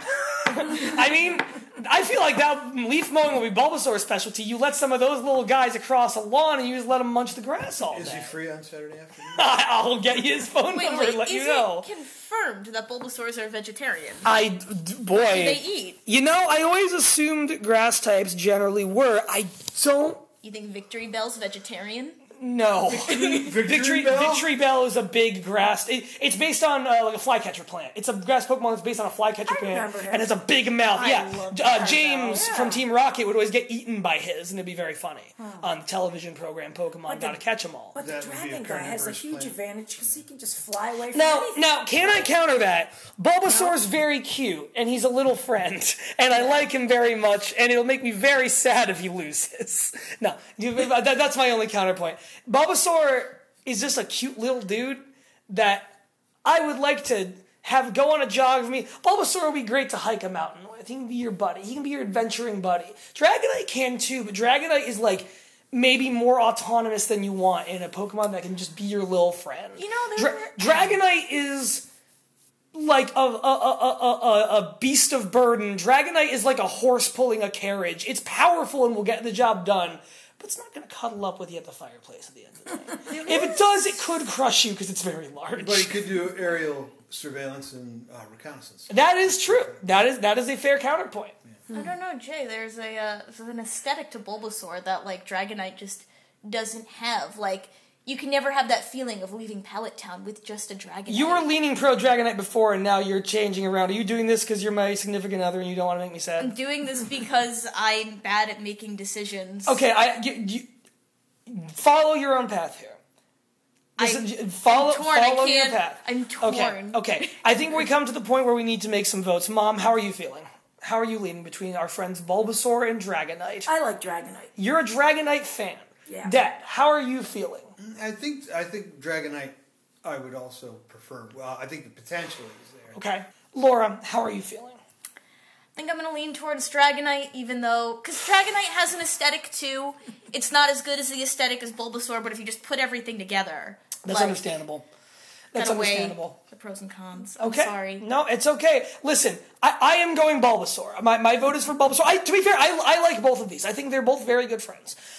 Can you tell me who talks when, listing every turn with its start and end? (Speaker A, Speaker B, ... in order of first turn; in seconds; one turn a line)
Speaker A: 0.5-8.3
Speaker B: 7.8-9.5
Speaker A: 9.3-11.9
Speaker C: 10.7-14.3
Speaker A: 14.2-20.2
Speaker C: 15.2-16.0
Speaker C: 20.4-22.2
Speaker A: 22.4-38.0
Speaker B: 22.9-24.5
Speaker D: 29.4-32.8
Speaker D: 35.4-35.7
Speaker D: 37.0-37.4
Speaker D: 37.9-42.3
Speaker B: 38.0-40.2
Speaker A: 41.1-55.9
Speaker D: 43.5-43.8
Speaker D: 46.3-46.7
Speaker A: 56.4-71.9
Speaker C: 69.8-70.7
Speaker A: 72.7-86.0
Speaker D: 83.1-83.5
Speaker B: 85.6-90.0
Speaker A: 88.9-91.3
Speaker C: 91.7-101.5
Speaker A: 101.1-106.5
Speaker C: 106.4-109.8
Speaker A: 109.7-110.7
Speaker A: 111.5-113.0
Speaker C: 114.0-117.3
Speaker A: 114.0-123.7
Speaker D: 123.7-124.5
Speaker A: 124.5-127.7
Speaker D: 126.1-126.3
Speaker B: 127.8-133.0
Speaker A: 132.9-134.8
Speaker C: 135.8-144.4
Speaker A: 144.0-144.8
Speaker A: 145.5-146.3
Speaker C: 145.5-148.0
Speaker A: 147.4-155.0